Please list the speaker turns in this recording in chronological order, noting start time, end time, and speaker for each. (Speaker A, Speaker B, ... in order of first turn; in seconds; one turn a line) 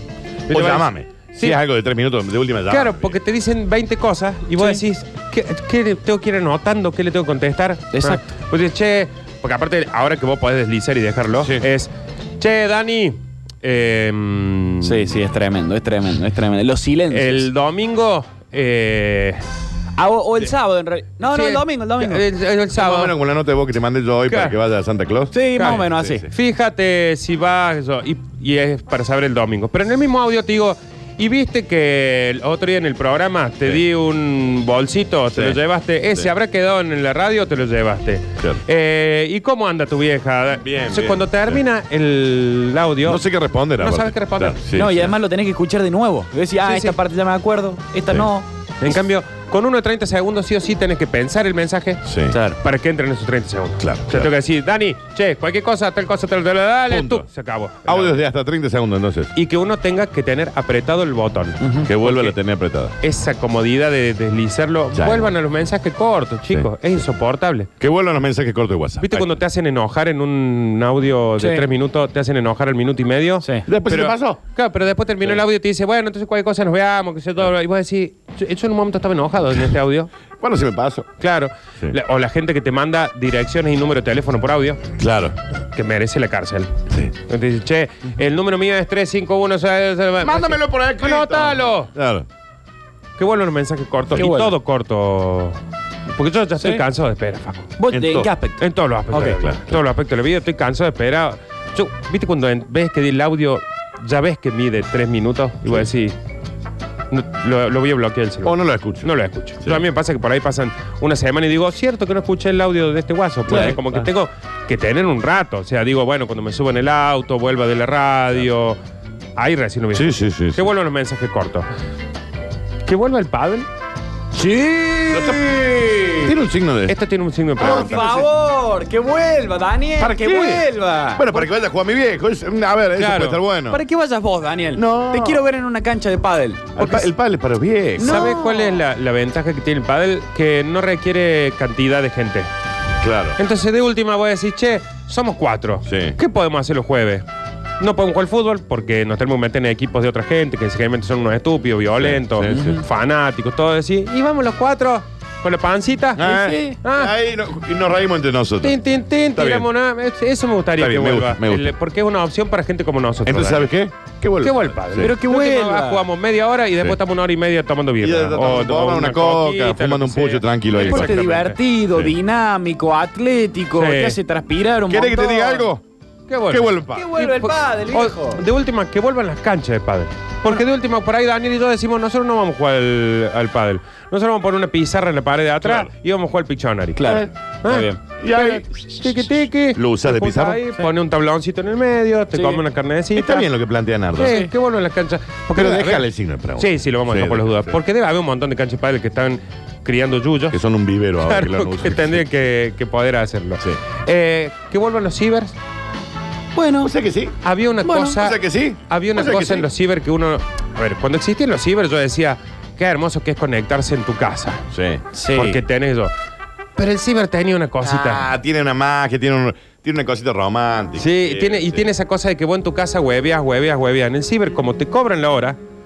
Speaker A: 0.5-1.6
Speaker B: 0.5-3.2
Speaker A: 2.7-15.2
Speaker C: 4.6-4.8
Speaker C: 7.9-8.2
Speaker B: 11.4-11.7
Speaker C: 14.8-17.5
Speaker A: 17.1-19.4
Speaker C: 20.0-22.2
Speaker A: 21.3-23.1
Speaker B: 22.7-26.3
Speaker A: 24.3-24.6
Speaker C: 25.3-26.3
Speaker A: 25.5-44.6
Speaker B: 35.3-35.6
Speaker B: 40.6-41.6
Speaker B: 43.0-45.1
Speaker C: 44.7-48.5
Speaker A: 46.6-47.0
Speaker A: 48.8-52.0
Speaker B: 52.0-52.4
Speaker C: 52.3-52.6
Speaker A: 52.6-58.2
Speaker B: 53.8-54.3
Speaker B: 56.9-57.3
Speaker B: 57.8-59.3
Speaker A: 59.3-62.4
Speaker C: 61.6-61.9
Speaker B: 61.8-63.0
Speaker A: 63.0-67.7
Speaker B: 64.9-65.3
Speaker B: 67.8-69.4
Speaker A: 69.0-80.1
Speaker C: 71.4-71.7
Speaker B: 73.7-74.4
Speaker B: 80.4-81.1
Speaker A: 81.2-84.8
Speaker B: 85.0-85.3
Speaker A: 85.7-86.7
Speaker A: 87.2-91.9
Speaker B: 90.2-92.3
Speaker A: 93.2-95.6
Speaker C: 94.1-94.5
Speaker A: 96.1-97.8
Speaker C: 96.6-96.8
Speaker C: 97.8-99.4
Speaker B: 97.9-98.3
Speaker A: 98.6-106.1
Speaker B: 99.4-99.8
Speaker B: 105.6-105.9
Speaker A: 107.1-118.8
Speaker B: 108.4-109.8
Speaker B: 113.5-114.1
Speaker A: 119.3-121.7
Speaker B: 119.9-120.7
Speaker A: 122.8-123.7
Speaker C: 124.3-126.3
Speaker B: 125.1-125.5
Speaker B: 126.2-127.0
Speaker A: 126.9-128.1
Speaker B: 127.5-128.3
Speaker C: 127.6-131.5
Speaker B: 130.0-133.8
Speaker A: 132.9-133.4
Speaker C: 133.7-137.1
Speaker B: 134.7-135.4
Speaker B: 136.8-138.3
Speaker C: 138.0-138.8
Speaker A: 138.0-142.5
Speaker B: 143.0-143.4
Speaker A: 143.4-147.2
Speaker B: 145.8-146.2
Speaker A: 147.8-156.3
Speaker B: 151.9-152.8
Speaker C: 152.5-152.8
Speaker B: 156.2-159.7
Speaker C: 156.2-156.8
Speaker A: 156.8-157.1
Speaker A: 158.6-163.7
Speaker B: 160.8-161.7
Speaker B: 163.2-165.1
Speaker A: 164.4-171.6
Speaker C: 165.0-166.1
Speaker B: 168.0-171.2
Speaker C: 170.7-175.7
Speaker A: 173.7-174.2
Speaker B: 174.9-175.8
Speaker A: 176.3-193.5
Speaker B: 176.4-177.1
Speaker C: 176.9-178.4
Speaker B: 185.6-185.9
Speaker C: 186.9-188.0
Speaker B: 188.2-190.6
Speaker C: 192.3-192.6
Speaker B: 193.1-194.4
Speaker A: 194.2-200.6
Speaker C: 194.2-194.5
Speaker B: 195.5-197.8
Speaker B: 200.5-202.3
Speaker A: 201.2-205.5
Speaker C: 206.5-206.9
Speaker B: 206.8-207.3
Speaker A: 207.4-214.6
Speaker C: 207.8-208.2
Speaker B: 208.2-209.7
Speaker B: 214.7-215.0
Speaker C: 215.1-215.6
Speaker A: 215.3-216.1
Speaker A: 216.8-218.3
Speaker B: 217.8-221.9
Speaker A: 221.0-225.6